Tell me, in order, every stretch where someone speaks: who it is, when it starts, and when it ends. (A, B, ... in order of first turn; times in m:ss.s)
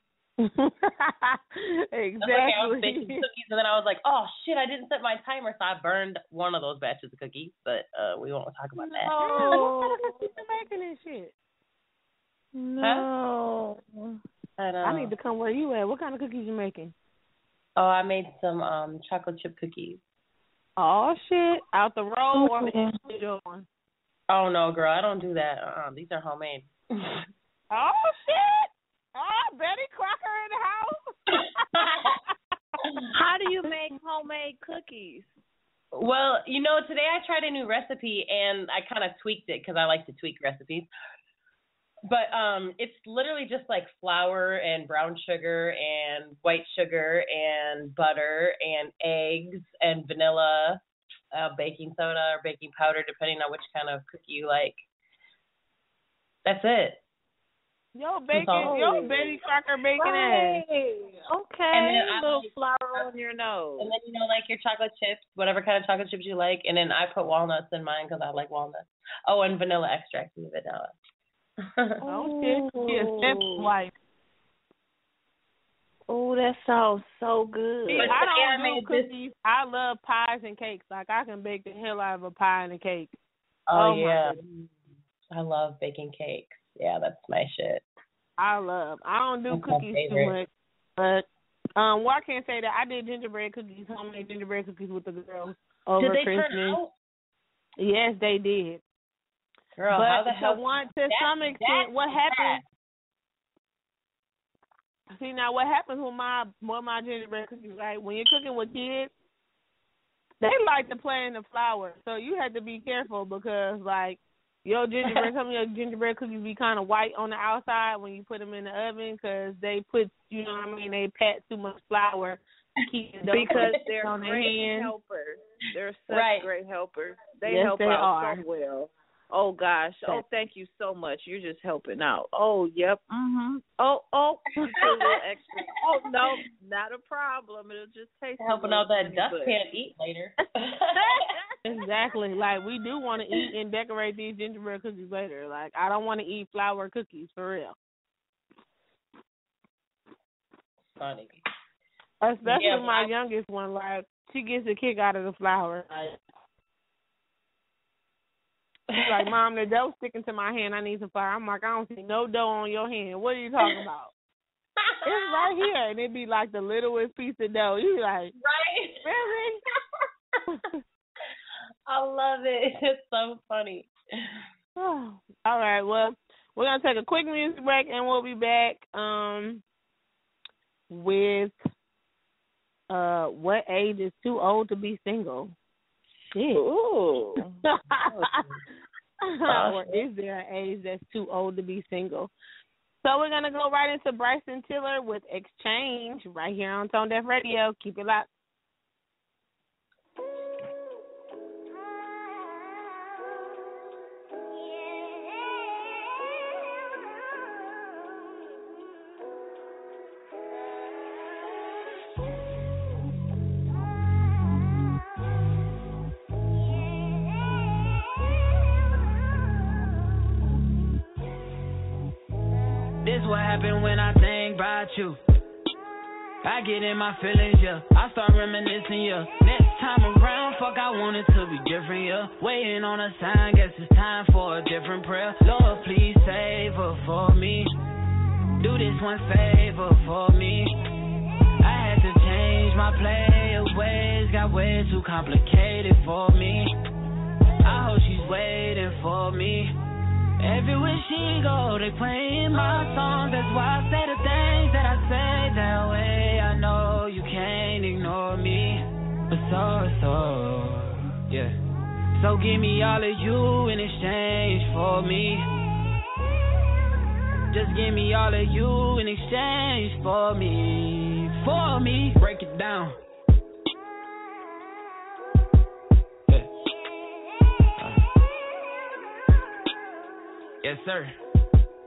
0:00.4-0:03.2 A
0:02.2-0:09.6 B
0:08.8-0:10.3 C
0:09.2-0:11.3 A
0:12.5-0:14.2 C
0:12.8-0:13.1 B
0:14.6-0:15.1 B
0:14.8-0:16.9 A
0:17.8-0:20.0 B
0:20.8-0:23.7 A
0:22.4-0:22.9 C
0:24.3-0:27.2 B
0:27.7-0:31.1 A
0:31.7-0:32.1 B
0:33.1-0:35.3 C
0:35.9-0:40.9 B
0:42.1-0:50.8 B
0:51.3-0:54.8 B
0:56.4-0:57.0 B
0:57.9-1:00.6 A
0:58.3-0:59.0 B
0:58.6-0:59.4 C
1:00.0-1:03.9 C
1:01.7-1:03.1 B
1:03.8-1:10.9 B
1:11.8-1:12.0 B
1:12.1-1:13.9 A
1:12.1-1:13.7 C
1:16.1-1:18.2 C
1:17.9-1:23.1 A
1:17.9-1:19.1 B
1:23.7-1:24.7 B
1:23.7-1:24.4 A
1:25.3-1:27.8 B
1:28.4-1:36.8 A
1:29.5-1:30.4 B
1:36.0-1:36.9 B
1:37.8-1:38.8 A
1:39.8-1:42.6 B
1:39.9-1:42.6 A
1:45.1-1:49.1 A
1:50.4-2:04.9 A
2:03.3-2:19.6 C
2:03.4-2:03.8 B
2:06.1-2:06.5 B
2:07.5-2:08.4 A
2:18.4-2:21.0 B
2:21.0-2:21.4 C
2:21.6-2:27.8 A
2:31.0-2:31.4 B
2:32.2-2:36.2 A
2:32.4-2:33.1 B
2:39.0-2:44.1 A
2:44.8-2:45.5 B
2:45.0-2:48.3 A
2:48.4-2:49.0 B
2:49.0-2:49.6 A
2:51.9-2:53.9 B
2:54.8-2:59.6 A
3:00.9-3:01.6 A
3:02.9-3:05.5 A
3:06.3-3:06.6 A
3:06.5-3:07.5 C
3:07.9-3:08.4 A
3:08.0-3:08.6 B
3:09.4-3:12.3 A
3:09.5-3:10.0 B
3:13.0-3:18.3 A
3:43.0-3:45.2 D
3:46.4-3:57.7 D
3:58.6-4:00.7 D
4:01.6-4:06.7 D
4:07.6-4:09.7 D
4:10.4-4:21.5 D
4:22.1-4:25.5 D
4:27.5-4:33.0 D
4:37.8-4:38.0 D
4:40.6-4:41.1 D